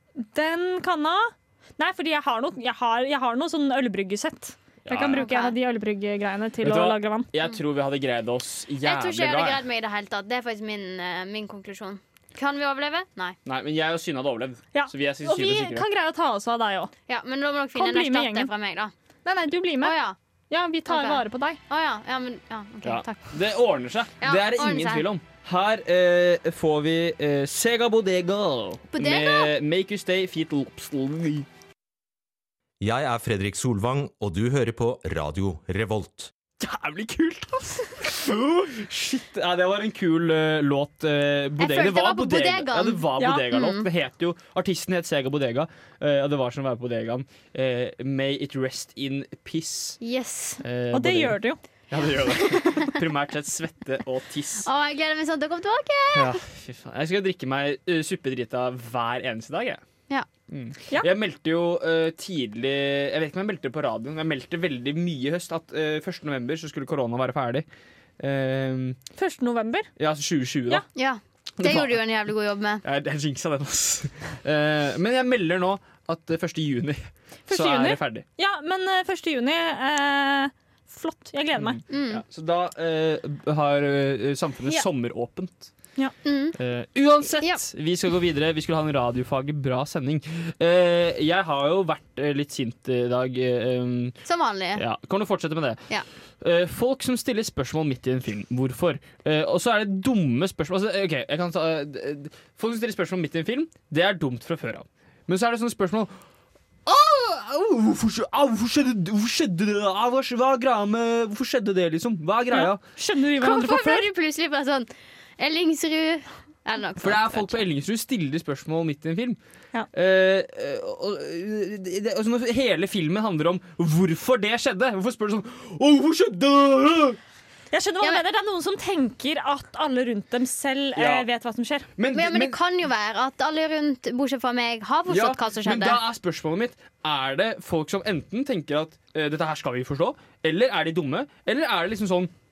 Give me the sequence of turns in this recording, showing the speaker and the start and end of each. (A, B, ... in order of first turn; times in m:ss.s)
0:00.2-0:07.3 A
0:04.8-0:05.3 B
0:05.1-0:05.6 C
0:06.6-0:09.6 B
0:08.8-0:13.4 C
0:13.4-0:15.9 B
0:14.7-0:16.9 A
0:17.1-0:18.9 C
0:17.7-0:18.5 A
0:19.2-0:20.0 A
0:19.8-0:20.2 C
0:20.5-0:21.6 A
0:20.9-0:23.3 C
0:22.8-0:31.5 B
0:24.2-0:25.1 C
0:28.9-0:29.5 C
0:32.8-0:36.3 D
0:36.6-0:50.0 B
0:41.6-0:43.9 C
0:43.2-0:43.4 A
0:50.0-0:50.6 C
0:50.6-0:51.4 B
0:50.9-0:51.6 A
0:51.9-0:54.7 B
0:54.6-0:56.4 C
0:56.1-0:59.8 B
1:00.5-1:07.6 B
1:08.2-1:09.0 B
1:09.2-1:09.9 A
1:10.0-1:10.9 B
1:10.9-1:12.8 C
1:11.6-1:12.0 B
1:12.8-1:18.2 B
1:17.5-1:21.8 A
1:21.6-1:25.7 B
1:21.9-1:22.2 C
1:26.2-1:26.6 C
1:26.6-1:34.2 B
1:34.2-1:34.8 C
1:34.7-1:35.8 B
1:36.4-1:46.1 B
1:46.9-1:52.8 B
1:52.5-1:54.1 A
1:53.4-1:57.6 C
1:57.0-1:59.4 B
1:59.9-2:07.2 B
2:07.7-2:11.9 A
2:11.0-2:11.3 B
2:12.0-2:12.6 B
2:12.1-2:16.0 C
2:15.1-2:22.3 B